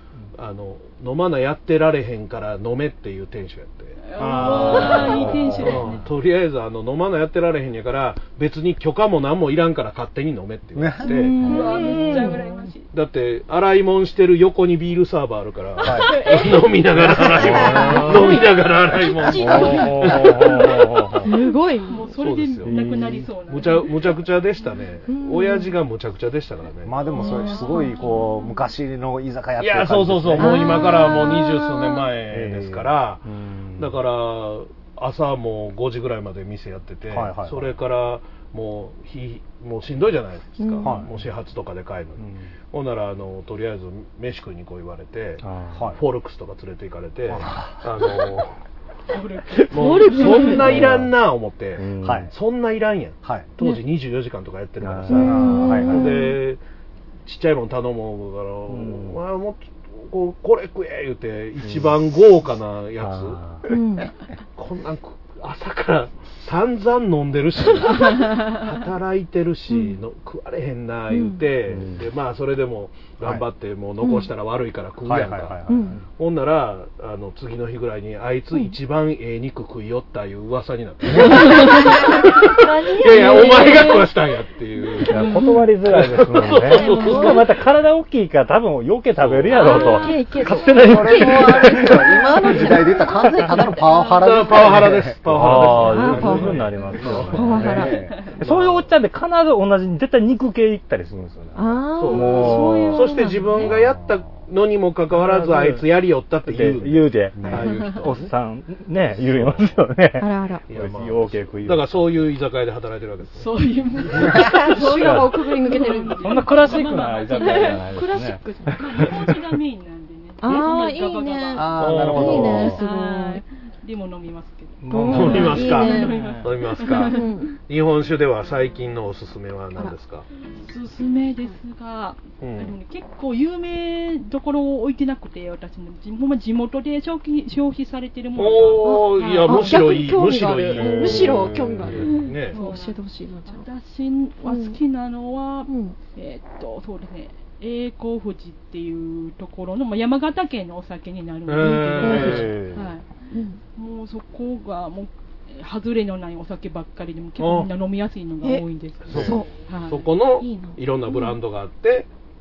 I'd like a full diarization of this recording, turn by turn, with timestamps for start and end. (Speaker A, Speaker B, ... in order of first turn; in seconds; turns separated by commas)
Speaker A: 0.4-12.3, Speaker B: 4.0-6.0, Speaker C: 4.2-5.8, Speaker C: 10.8-11.9, Speaker D: 11.0-12.7, Speaker B: 11.4-12.9, Speaker A: 12.9-20.4, Speaker C: 15.8-16.1, Speaker D: 15.9-20.1, Speaker C: 17.0-17.9, Speaker E: 17.4-18.4, Speaker E: 19.4-21.3, Speaker C: 19.4-20.2, Speaker D: 21.2-22.1, Speaker B: 21.9-24.2, Speaker A: 22.2-22.8, Speaker E: 22.6-23.3, Speaker A: 23.5-26.9, Speaker D: 25.1-25.7, Speaker C: 26.8-31.0, Speaker D: 27.2-28.4, Speaker B: 27.2-28.2, Speaker A: 29.6-33.2, Speaker D: 30.4-32.1, Speaker C: 32.3-32.9, Speaker E: 33.2-34.0, Speaker A: 33.8-45.4, Speaker C: 37.1-37.7, Speaker D: 40.6-41.0, Speaker C: 40.8-41.1, Speaker E: 42.2-42.5, Speaker E: 45.4-45.9, Speaker A: 46.0-48.5, Speaker C: 47.3-48.1, Speaker B: 49.1-50.6, Speaker D: 49.7-50.6, Speaker A: 49.7-56.6, Speaker E: 50.6-51.1, Speaker E: 51.8-52.3, Speaker C: 52.0-52.3, Speaker C: 53.2-53.5, Speaker E: 54.8-55.5, Speaker D: 55.1-56.4, Speaker C: 55.2-56.2, Speaker A: 57.3-63.4, Speaker E: 58.7-59.2, Speaker E: 61.6-62.0, Speaker E: 63.0-63.6, Speaker D: 63.7-64.1, Speaker A: 64.6-75.6, Speaker B: 68.0-68.6, Speaker D: 69.7-70.0, Speaker D: 71.1-71.4, Speaker E: 71.7-72.0, Speaker D: 74.0-74.3, Speaker C: 75.0-76.0, Speaker D: 75.7-76.0, Speaker A: 76.2-87.4, Speaker D: 81.2-84.1, Speaker E: 85.1-92.3, Speaker D: 86.6-87.4, Speaker A: 89.2-90.1, Speaker D: 89.5-94.2, Speaker C: 90.8-95.8, Speaker A: 94.2-97.6, Speaker E: 95.3-103.1, Speaker D: 95.8-96.6, Speaker C: 97.0-98.3, Speaker D: 97.3-98.0, Speaker A: 98.4-98.9, Speaker D: 101.5-103.7, Speaker A: 102.0-108.3, Speaker C: 103.6-104.2, Speaker E: 105.1-105.8, Speaker E: 106.4-112.2, Speaker C: 107.4-107.7, Speaker A: 109.2-109.7, Speaker D: 110.2-110.6, Speaker A: 110.7-113.5, Speaker B: 113.4-118.0, Speaker E: 114.2-115.4, Speaker D: 114.5-118.8, Speaker E: 116.2-119.5, Speaker B: 118.8-127.4, Speaker D: 120.4-123.4, Speaker C: 121.5-122.8, Speaker A: 121.8-122.7, Speaker E: 124.8-126.5, Speaker D: 124.9-126.3, Speaker A: 125.1-130.3, Speaker D: 127.1-127.5, Speaker B: 130.6-139.8, Speaker A: 132.4-132.7, Speaker A: 138.4-142.6, Speaker D: 138.8-143.7, Speaker C: 140.8-142.1, Speaker B: 142.0-153.1, Speaker D: 144.4-144.8, Speaker D: 145.7-146.0, Speaker A: 151.5-152.5, Speaker C: 152.0-152.9, Speaker D: 153.3-153.6, Speaker B: 153.8-160.1, Speaker A: 157.4-157.7, Speaker D: 158.4-159.5, Speaker A: 159.1-162.1, Speaker D: 160.4-161.3